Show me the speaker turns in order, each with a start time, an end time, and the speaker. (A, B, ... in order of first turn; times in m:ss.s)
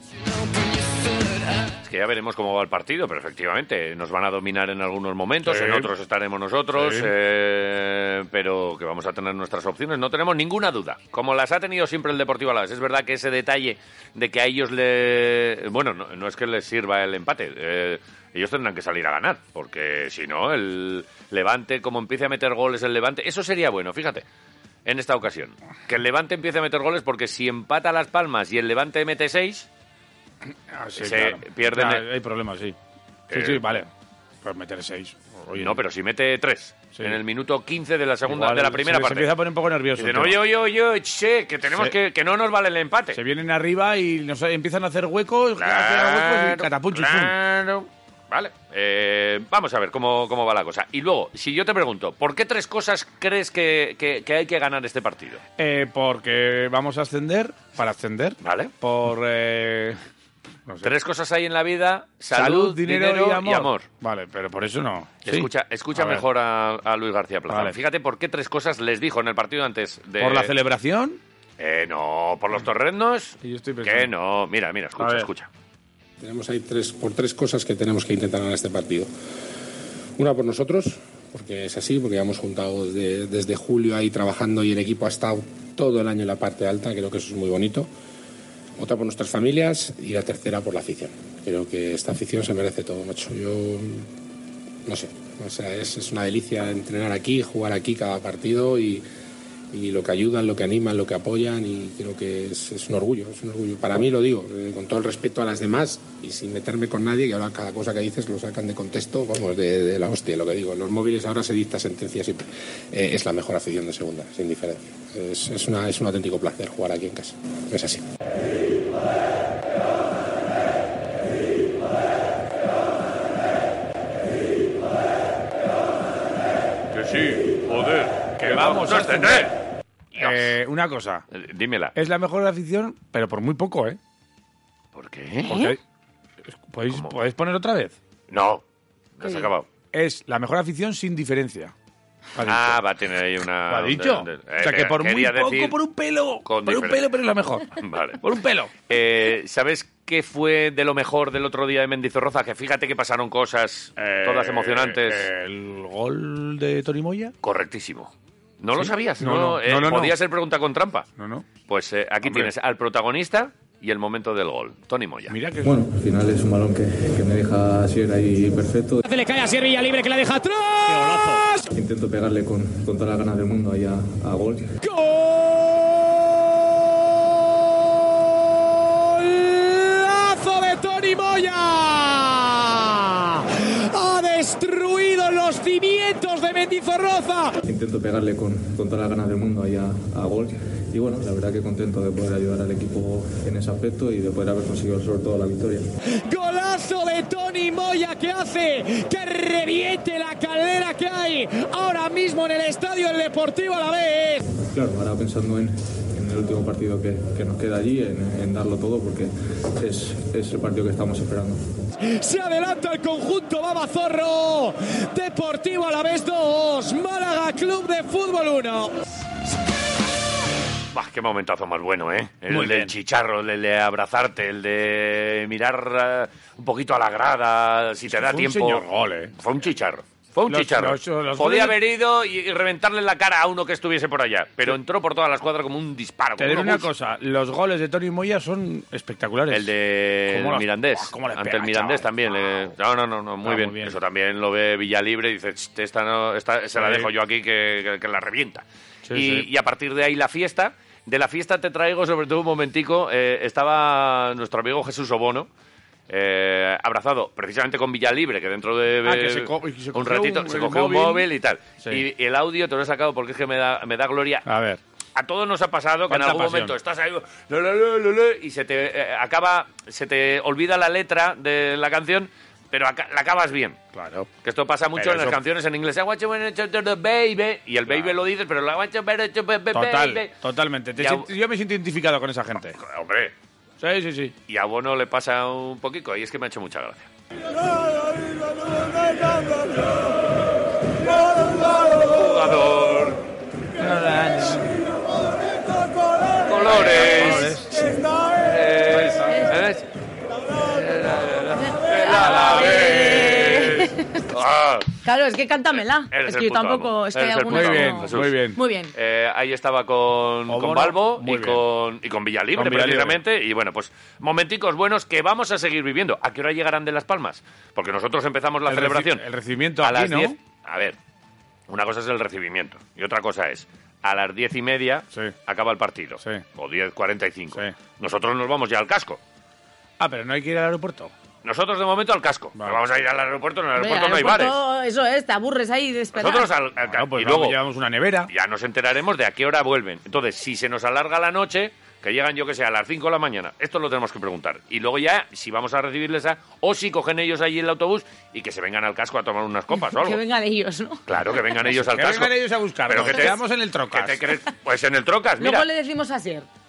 0:00.2-0:01.7 A
0:01.8-0:24.2 B
0:05.4-0:05.9 C
0:06.8-0:07.1 C
0:24.8-0:29.7 B
0:30.7-0:32.8 C
0:31.0-0:32.0 B
0:33.3-0:33.6 B
0:33.3-0:33.9 C
0:34.4-0:35.8 C
0:35.6-0:39.3 B
0:38.3-0:40.4 C
0:40.0-0:43.2 B
0:43.1-0:47.3 C
0:45.6-0:55.4 B
0:55.6-1:00.0 C
0:58.4-0:58.7 B
1:00.8-1:03.9 B
1:02.3-1:06.2 C
1:05.2-1:10.5 B
1:07.5-1:07.8 C
1:10.2-1:11.2 C
1:11.6-1:15.5 B
1:13.4-1:14.1 C
1:15.0-1:15.3 C
1:16.2-1:19.1 D
1:20.2-1:27.9 D
1:28.8-1:34.1 D
1:34.9-1:39.0 D
1:39.7-1:58.0 D
2:06.9-2:09.5 B
2:08.4-2:09.5 C
2:10.2-2:11.2 C
2:10.2-2:10.5 B
2:11.3-2:12.0 B
2:12.0-2:14.0 C
2:15.0-2:15.6 B
2:15.4-2:15.8 C
2:16.6-2:18.0 C
2:18.3-2:18.6 B
2:19.2-2:19.7 B
2:19.9-2:21.7 C
2:22.4-2:22.8 C
2:22.4-2:25.8 B
2:23.7-2:28.7 C
2:26.4-2:27.0 B
2:27.8-2:28.2 B
2:28.9-2:35.3 B
2:34.0-2:37.3 C
2:37.4-2:41.1 B
2:38.8-2:40.2 C
2:41.2-2:41.5 C
2:41.7-2:45.3 B
2:42.2-2:42.5 C
2:45.3-2:45.8 C
2:45.6-2:49.1 E
2:49.1-2:51.6 C
2:51.7-2:54.8 E
3:05.3-3:07.3 A
3:07.6-3:15.9 E
3:16.3-3:24.4 A
3:24.6-3:31.7 E
3:32.1-3:38.9 A
3:40.9-3:48.8 B
3:42.5-3:42.9 C
3:48.1-3:49.4 C
3:49.4-3:56.9 B
3:50.5-3:51.8 C
3:56.4-3:59.7 C
3:59.5-4:15.5 B
4:00.3-4:02.1 C
4:03.4-4:04.0 C
4:06.8-4:07.1 C
4:09.1-4:09.5 C
4:16.1-4:24.5 B
4:19.0-4:21.3 C
4:24.5-4:24.8 C
4:25.2-4:33.8 B
4:26.1-4:26.8 C
4:33.9-4:34.3 C
4:34.4-4:40.3 B
4:35.0-4:35.4 C
4:39.7-4:42.8 C
4:41.0-4:41.3 B
4:42.8-4:43.3 B
4:43.8-4:44.4 C
4:44.5-4:47.1 B
4:48.8-4:49.2 B
4:51.3-4:53.2 B
4:53.8-4:54.8 C
4:56.4-4:59.9 B
4:56.6-4:58.0 C
5:00.5-5:05.0 B
5:01.8-5:04.2 F
5:02.2-5:03.5 C
5:05.0-5:08.9 F
5:06.1-5:08.4 B
5:07.5-5:08.6 C
5:08.9-5:19.2 B
5:10.5-5:11.6 C
5:12.6-5:13.2 C
5:18.7-5:20.4 C
5:19.8-5:21.0 B
5:21.7-5:29.2 B
5:30.0-5:31.1 C
5:31.4-5:34.6 B
5:33.8-5:36.5 F
5:36.2-5:37.6 B
5:36.8-5:38.3 C
5:38.3-5:50.2 B
5:49.8-5:51.0 F
5:51.1-5:52.3 B
5:51.7-5:54.2 C
5:52.9-5:55.7 B
5:55.4-5:56.5 F